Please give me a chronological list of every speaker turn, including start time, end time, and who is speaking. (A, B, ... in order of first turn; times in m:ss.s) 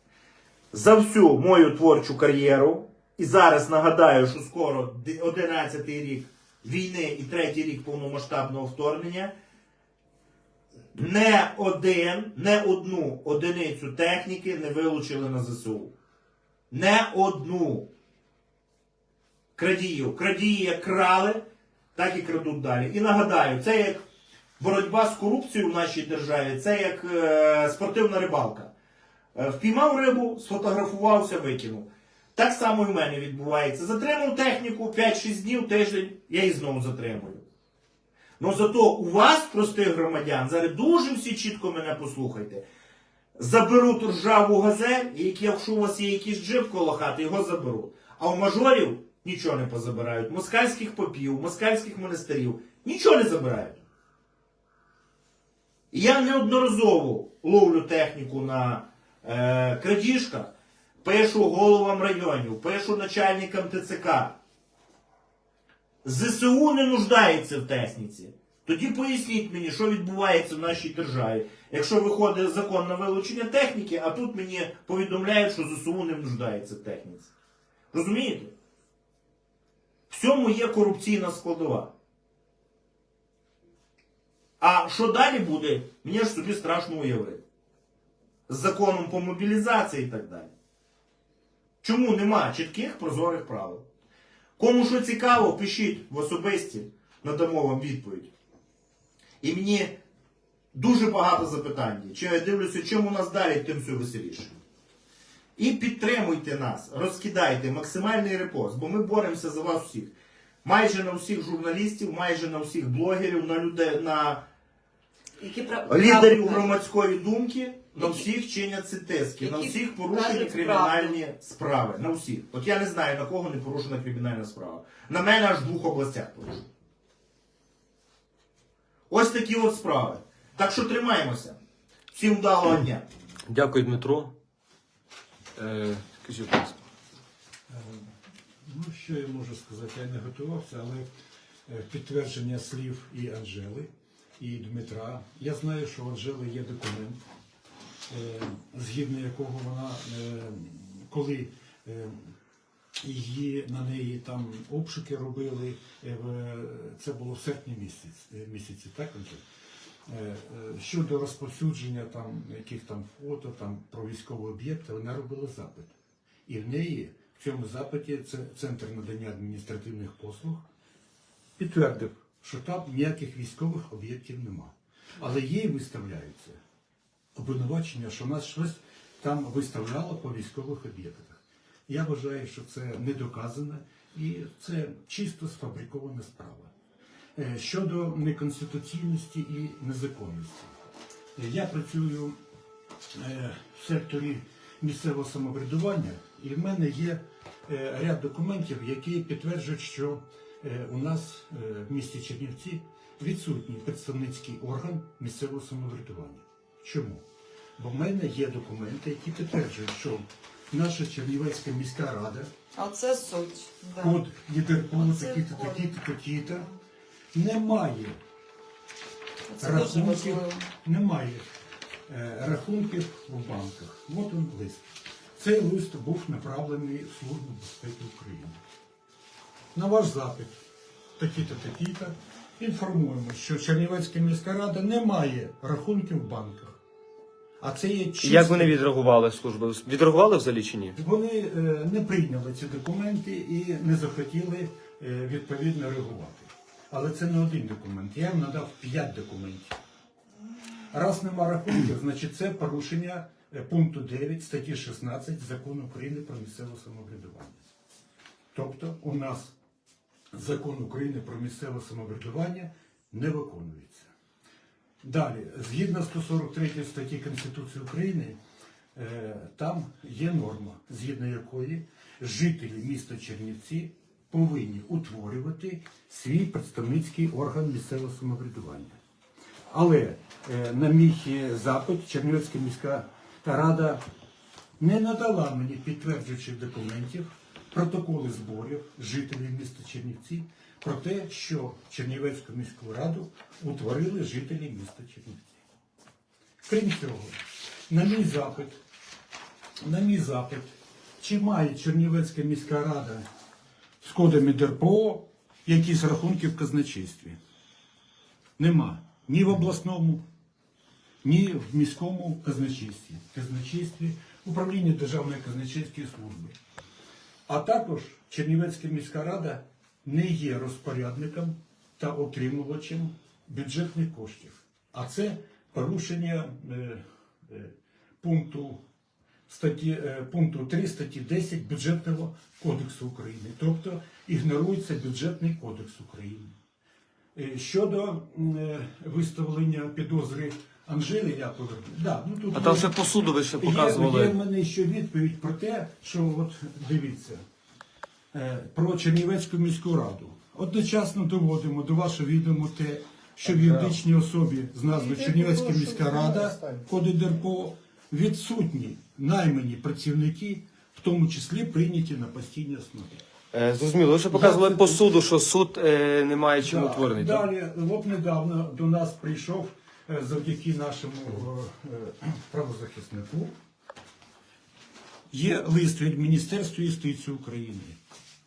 0:00.7-0:09.3 A
0:10.9-0:15.9 A
0:16.7-0:17.9 A
0:19.6-0:21.4 A
0:22.0-0:24.0 A
0:24.6-0:28.7 A
0:29.4-0:37.4 A
0:38.4-0:42.6 A
0:43.4-0:53.8 A
0:55.9-1:04.4 A
1:06.0-1:17.3 A
1:17.9-1:18.5 A
1:20.1-1:21.9 A
1:24.6-1:27.4 A
1:28.5-1:30.5 A
1:31.8-1:33.8 A
1:34.6-1:38.3 A
1:39.4-1:40.0 A
1:40.7-1:44.6 A
1:45.6-1:50.1 A
1:50.6-1:54.4 A
1:55.4-1:56.8 B
1:55.9-2:06.7 A
1:58.0-1:58.3 B
1:59.4-2:01.2 B
2:09.1-2:11.6 A
2:12.1-2:13.1 A
2:13.5-2:14.3 C
2:15.6-2:16.8 C
2:17.7-2:18.1 D
2:18.6-2:21.1 D
2:21.7-2:27.2 D
2:28.1-2:32.3 D
2:33.0-2:39.4 D
2:40.1-2:45.9 D
2:46.5-2:50.7 D
2:51.6-2:56.6 D
2:57.4-3:06.7 D
3:07.4-3:10.8 D
3:11.4-3:12.4 D
3:13.1-3:27.2 D
3:27.8-3:32.5 D
3:32.8-3:34.2 B
3:34.0-3:36.7 D
3:34.9-3:36.7 B
3:37.3-3:38.2 D
3:39.5-3:40.7 B
3:39.6-3:41.4 D
3:42.1-3:48.6 D
3:49.7-3:50.6 D
3:51.2-3:56.8 D
3:57.6-3:58.8 D
3:58.2-4:01.0 C
4:01.0-4:09.8 D
4:10.9-4:17.6 D
4:18.5-4:19.6 D
4:20.3-4:24.1 D
4:25.0-4:28.4 D
4:29.0-4:39.0 D
4:39.7-4:44.0 D
4:44.8-4:55.6 D
4:56.6-4:58.8 D
4:59.8-5:03.2 D
5:04.0-5:07.4 D
5:08.6-5:10.2 D
5:11.2-5:16.6 D
5:17.5-5:28.8 D
5:29.5-5:36.5 D
5:37.4-5:43.0 D
5:42.5-5:44.4 C
5:43.6-5:47.4 D
5:48.3-6:03.2 D
5:53.6-5:53.9 C
5:54.9-5:56.9 A
6:03.5-6:07.4 C
6:04.3-6:05.0 D
6:06.6-6:13.6 D
6:15.3-6:18.0 D